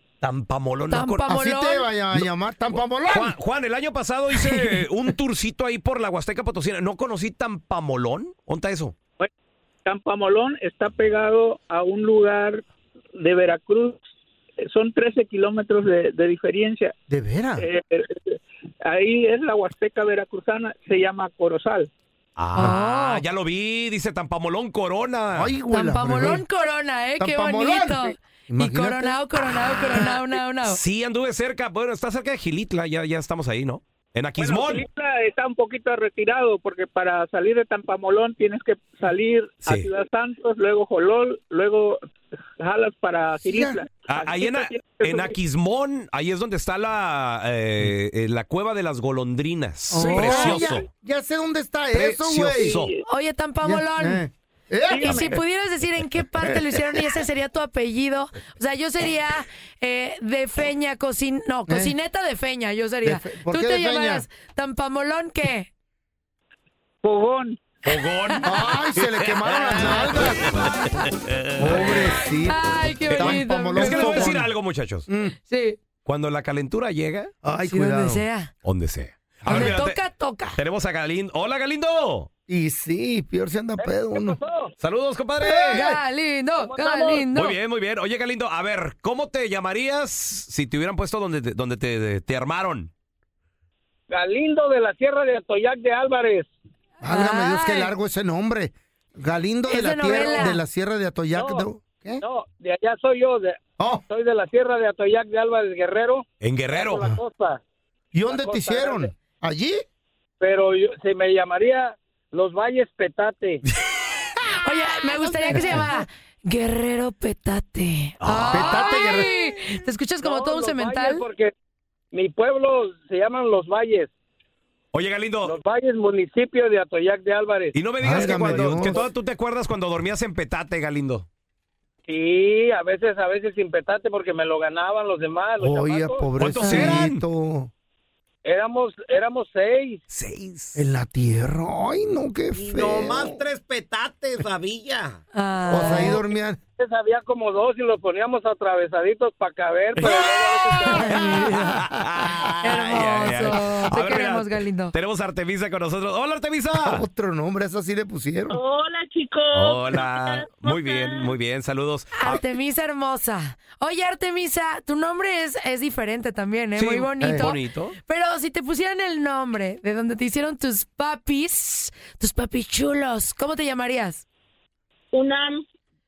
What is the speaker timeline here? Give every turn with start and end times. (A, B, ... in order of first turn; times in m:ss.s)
0:00.2-0:00.6 A
0:00.4-0:01.2 B
0:00.9-0:01.9 C
0:01.3-0:03.4 D
0:03.1-0:09.0 B
0:09.8-0:12.6 E
0:13.2-0:14.0 E
0:14.6-0:16.9 E
0:17.1-0:17.6 D
0:17.6-0:21.9 E
0:22.4-0:25.5 B
0:22.5-0:23.2 C
0:25.3-0:26.4 D
0:25.7-0:30.8 C
0:27.2-0:29.2 D
0:30.6-0:34.8 B
0:34.4-0:42.0 E
0:42.6-0:45.4 E
0:43.4-0:43.8 D
0:44.0-0:50.8 B
0:49.9-0:52.8 D
0:49.9-0:50.6 C
0:50.2-0:50.8 E
0:51.9-0:52.9 B
0:52.6-0:53.0 E
0:53.0-0:54.2 C
0:53.6-0:55.4 D
0:54.9-0:55.3 E
0:54.9-1:05.7 C
1:01.7-1:01.9 D
1:03.0-1:04.2 D
1:07.0-1:07.6 E
1:07.8-1:12.2 B
1:08.4-1:10.7 D
1:11.6-1:14.5 D
1:12.4-1:14.3 C
1:13.1-1:15.1 B
1:15.1-1:15.3 D
1:15.4-1:15.8 C
1:16.0-1:17.3 B
1:17.4-1:18.2 D
1:17.6-1:18.5 C
1:18.6-1:20.0 B
1:19.4-1:19.7 D
1:19.4-1:20.6 C
1:20.6-1:22.3 B
1:22.5-1:24.4 D
1:23.8-1:24.7 E
1:24.8-1:25.8 B
1:25.4-1:26.0 D
1:25.7-1:27.6 C
1:26.6-1:27.3 E
1:27.3-1:32.9 B
1:34.1-1:36.5 E
1:37.0-1:42.2 D
1:37.0-1:37.9 C
1:39.7-1:40.6 C
1:40.1-1:40.5 E
1:41.3-1:41.7 E
1:42.2-1:47.6 E
1:43.8-1:44.0 D
1:46.4-1:47.1 B
1:48.1-1:49.8 D
1:48.3-1:49.1 E
1:50.4-1:53.6 E
1:54.6-2:01.2 C
1:55.5-1:55.9 D
1:58.2-1:58.9 B
1:58.5-1:59.3 D
2:00.2-2:01.5 E
2:02.1-2:04.1 E
2:04.9-2:05.6 B
2:05.4-2:08.9 E
2:07.7-2:11.3 B
2:08.0-2:09.1 D
2:12.1-2:16.3 E
2:15.6-2:17.7 D
2:16.4-2:17.2 B
2:16.6-2:17.0 C
2:18.4-2:20.0 E
2:20.1-2:20.7 B
2:20.3-2:20.6 A
2:20.7-2:23.4 D
2:22.5-2:25.2 A
2:25.3-2:26.2 C
2:25.7-2:26.6 D
2:26.8-2:31.3 E
2:30.0-2:37.0 B
2:30.9-2:31.5 C
2:32.6-2:34.9 C
2:36.7-2:38.5 D
2:38.5-2:41.3 F
2:39.5-2:42.4 B
2:42.2-2:54.2 C
2:46.7-2:47.9 B
2:47.2-2:47.5 D
2:55.1-2:55.6 F